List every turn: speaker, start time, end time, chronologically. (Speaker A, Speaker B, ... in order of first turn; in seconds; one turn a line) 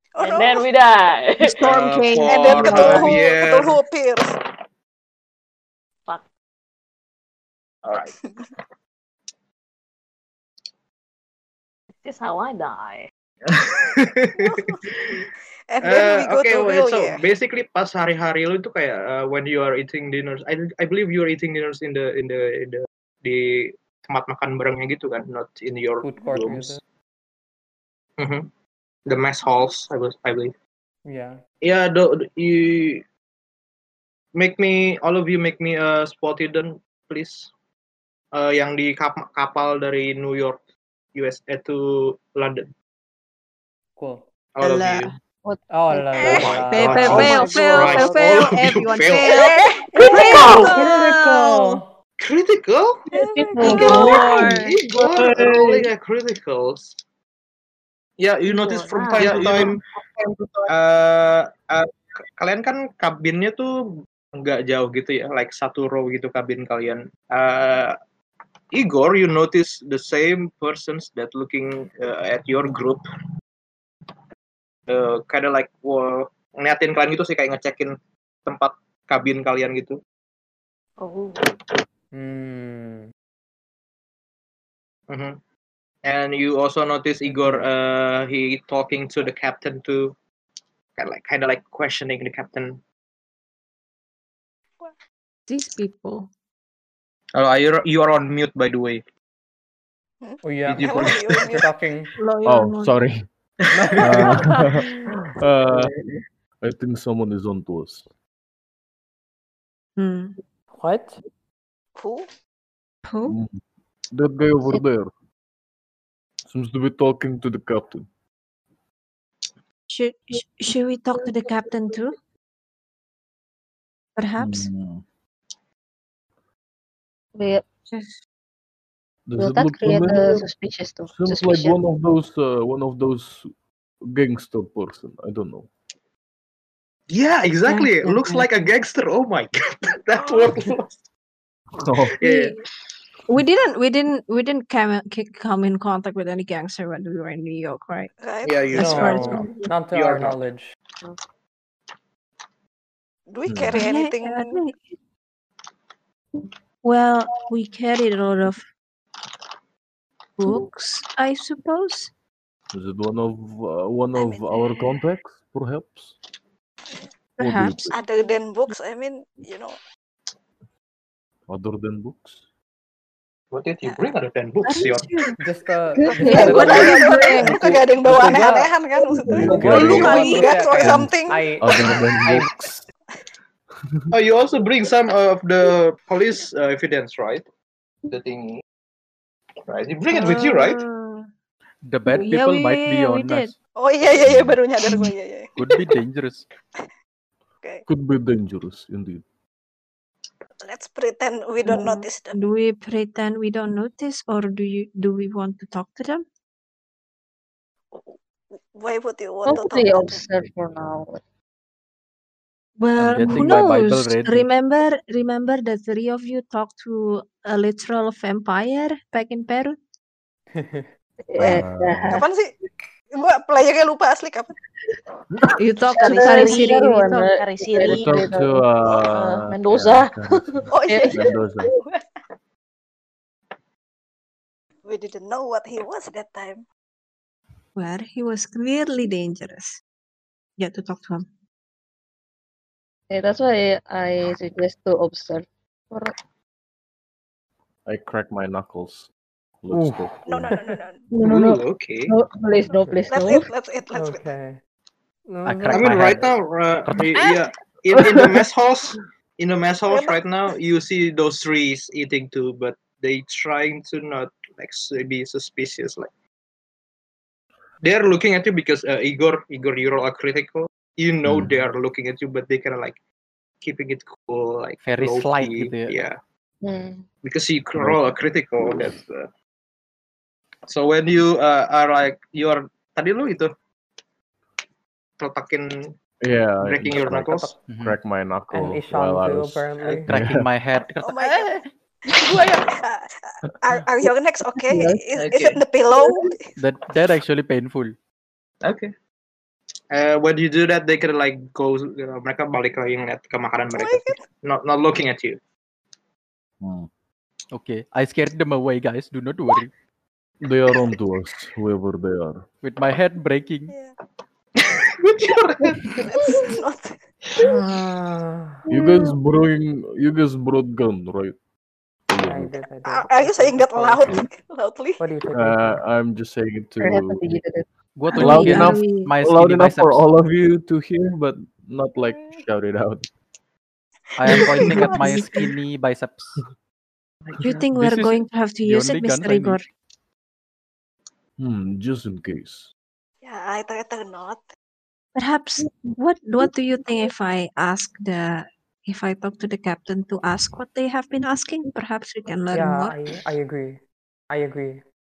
Speaker A: 0.1-0.7
Speaker B: 0.2-1.6
Speaker C: 1.4-3.2
Speaker D: 1.6-3.8
Speaker A: 2.2-4.3
Speaker D: 7.8-8.2
Speaker B: 12.0-13.1
Speaker D: 13.4-15.2
Speaker A: 14.4-14.8
Speaker A: 15.7-17.2
Speaker D: 15.8-26.8
Speaker E: 26.0-26.8
Speaker D: 28.2-28.5
Speaker D: 29.1-30.5
Speaker E: 31.1-31.4
Speaker D: 31.6-33.0
Speaker D: 34.3-37.5
Speaker D: 38.3-40.6
Speaker D: 41.1-42.7
Speaker E: 44.0-44.2
Speaker D: 44.5-45.1
Speaker C: 44.6-45.1
Speaker F: 45.4-46.5
Speaker E: 45.7-47.6
Speaker C: 46.2-51.4
Speaker D: 46.3-49.5
Speaker B: 47.1-48.3
Speaker A: 49.5-50.4
Speaker E: 50.1-51.9
Speaker D: 50.1-50.9
Speaker D: 52.2-53.0
Speaker F: 53.1-54.5
Speaker A: 53.1-54.1
Speaker C: 53.4-55.5
Speaker D: 53.6-57.0
Speaker F: 55.2-55.5
Speaker D: 58.2-59.8
Speaker B: 58.4-59.6
Speaker F: 59.2-60.7
Speaker D: 60.7-63.7
Speaker D: 64.4-68.0
Speaker D: 68.7-73.0
Speaker D: 74.9-80.0
Speaker B: 81.0-81.4
Speaker E: 82.1-83.1
Speaker D: 85.1-85.4
Speaker D: 86.0-90.2
Speaker E: 87.2-87.7
Speaker D: 91.0-92.8
Speaker C: 95.5-96.3
Speaker D: 97.4-99.0
Speaker A: 100.2-101.7
Speaker E: 100.4-102.1
Speaker D: 100.7-101.4
Speaker C: 102.2-103.0
Speaker G: 102.4-103.2
Speaker D: 103.7-104.4
Speaker E: 103.7-104.7
Speaker G: 104.0-105.9
Speaker G: 106.6-108.1
Speaker C: 110.0-110.4
Speaker E: 110.8-111.2
Speaker A: 112.0-112.2
Speaker C: 113.0-113.4
Speaker G: 113.3-113.6
Speaker G: 114.1-115.1
Speaker G: 116.5-118.1
Speaker C: 119.9-122.2
Speaker C: 124.2-124.7
Speaker G: 124.4-125.0
Speaker F: 127.4-127.6
Speaker G: 129.3-130.4
Speaker F: 129.4-131.8
Speaker G: 131.1-135.7
Speaker D: 137.1-141.0
Speaker C: 137.6-138.5
Speaker A: 140.2-140.6
Speaker G: 141.8-142.2
Speaker D: 142.2-142.5
Speaker C: 142.2-142.6
Speaker C: 143.3-148.1
Speaker A: 148.2-148.9
Speaker D: 148.4-150.4
Speaker C: 148.7-149.7
Speaker E: 148.7-150.7
Speaker A: 153.3-154.6
Speaker G: 153.4-153.8
Speaker C: 153.7-154.9
Speaker C: 156.8-158.7
Speaker C: 160.4-162.1
Speaker G: 162.7-166.2
Speaker C: 164.2-164.8
Speaker C: 167.4-167.9
Speaker G: 167.4-167.9
Speaker A: 167.9-169.8
Speaker G: 171.5-172.4
Speaker D: 173.5-175.2
Speaker A: 173.9-174.1
Speaker C: 174.6-175.4
Speaker E: 175.4-178.8
Speaker C: 176.0-178.4
Speaker A: 176.1-181.5
Speaker G: 179.2-180.2
Speaker E: 179.3-182.5
Speaker C: 179.5-180.7
Speaker G: 180.7-182.9
Speaker G: 183.7-184.1
Speaker D: 184.1-187.4
Speaker D: 188.1-188.6
Speaker D: 189.7-190.8
Speaker C: 190.1-191.3
Speaker H: 191.8-193.5
Speaker C: 192.1-193.5
Speaker A: 193.8-195.9
Speaker G: 194.2-194.6
Speaker H: 195.6-196.5
Speaker G: 197.9-199.2
Speaker A: 200.6-202.4
Speaker C: 201.6-206.2
Speaker A: 207.9-210.2
Speaker F: 209.4-211.2
Speaker C: 212.8-219.8
Speaker H: 213.0-214.5
Speaker E: 220.5-220.9
Speaker F: 221.3-222.2
Speaker G: 221.4-222.2
Speaker A: 222.1-222.5
Speaker A: 223.1-224.5
Speaker C: 225.6-227.3
Speaker F: 225.9-228.7
Speaker B: 226.0-226.8
Speaker B: 227.4-228.3
Speaker G: 227.8-231.7
Speaker B: 228.9-230.6
Speaker A: 230.7-232.0
Speaker F: 230.9-231.2
Speaker A: 234.9-236.6
Speaker C: 237.8-239.8
Speaker C: 240.6-241.3
Speaker F: 243.1-246.2
Speaker G: 247.9-249.1
Speaker G: 249.6-250.5
Speaker H: 249.7-250.1
Speaker A: 250.2-251.1
Speaker F: 251.1-253.5
Speaker D: 251.2-252.1
Speaker A: 253.1-254.3
Speaker E: 253.9-254.6
Speaker E: 255.3-256.1
Speaker H: 255.4-256.3
Speaker D: 255.7-266.1
Speaker H: 256.9-257.2
Speaker A: 259.9-260.2
Speaker D: 267.8-273.0
Speaker G: 271.2-271.5
Speaker D: 273.6-276.2
Speaker H: 274.8-276.0
Speaker F: 276.6-277.0
Speaker D: 277.2-279.3
Speaker G: 277.8-278.9
Speaker D: 280.7-283.5
Speaker D: 285.2-285.9
Speaker G: 286.2-290.5
Speaker D: 286.6-287.6
Speaker E: 287.3-287.6
Speaker H: 287.6-288.0
Speaker E: 288.5-290.1
Speaker D: 289.8-290.1
Speaker H: 290.1-291.2
Speaker A: 291.0-296.5
Speaker D: 295.1-295.6
Speaker H: 296.6-297.9
Speaker D: 298.6-298.9
Speaker D: 299.9-305.4
Speaker A: 303.7-304.2
Speaker G: 306.6-306.9
Speaker H: 307.5-309.7
Speaker G: 310.4-312.5
Speaker H: 312.6-313.7
Speaker D: 314.6-316.0
Speaker A: 316.0-317.0
Speaker E: 317.4-318.7
Speaker G: 318.7-321.4
Speaker C: 318.7-319.1
Speaker G: 322.1-322.6
Speaker E: 322.2-324.2
Speaker A: 322.8-325.0
Speaker E: 325.0-325.8
Speaker G: 325.3-327.4
Speaker F: 326.8-327.6
Speaker H: 327.9-330.1
Speaker C: 328.1-329.1
Speaker G: 328.1-333.1
Speaker A: 332.1-332.4
Speaker H: 334.2-336.4
Speaker A: 334.2-335.2
Speaker C: 334.5-335.4
Speaker D: 337.3-337.6
Speaker C: 337.4-339.6
Speaker H: 337.7-339.6
Speaker G: 341.4-342.7
Speaker A: 343.2-344.5
Speaker C: 345.1-353.0
Speaker E: 352.5-354.8